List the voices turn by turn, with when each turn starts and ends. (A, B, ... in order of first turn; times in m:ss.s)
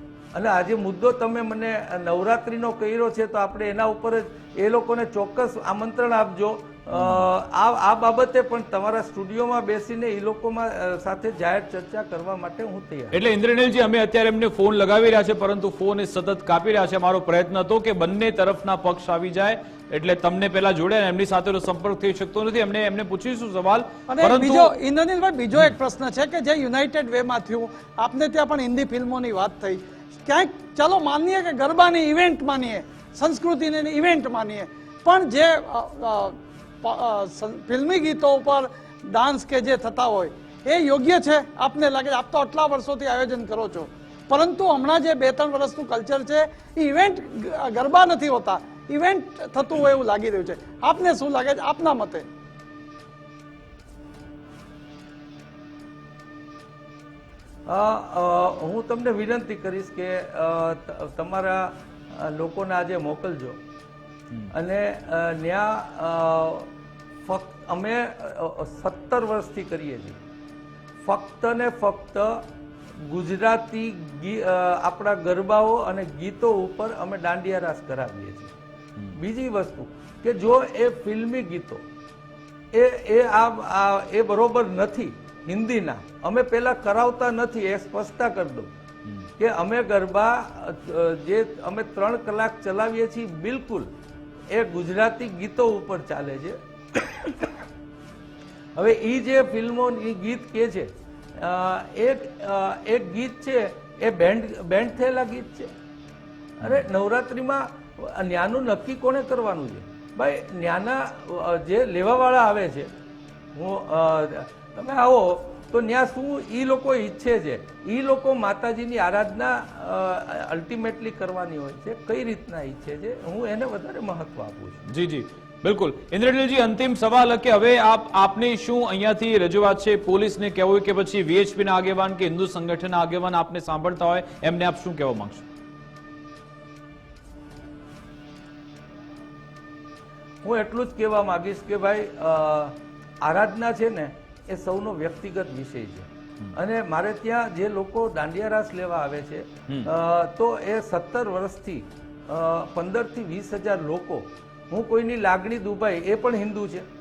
0:00.3-0:13.2 A
0:06.9-0:07.3 B
0:13.1-0:24.7 B
0:24.1-0:52.2 C
0:57.7-1:03.6 A
1:04.5-1:06.7 A
1:07.2-1:10.2 A
1:11.0-1:12.5 A
1:13.0-1:18.5 A
1:19.1-1:21.8 A
1:22.7-1:28.7 A
1:29.4-1:33.9 A
1:34.5-1:37.6 A
1:38.8-1:45.7 A
1:46.6-1:52.9 A
1:46.6-1:46.9 B
1:53.5-2:04.8 A
2:04.9-2:15.5 B
2:20.4-2:36.9 A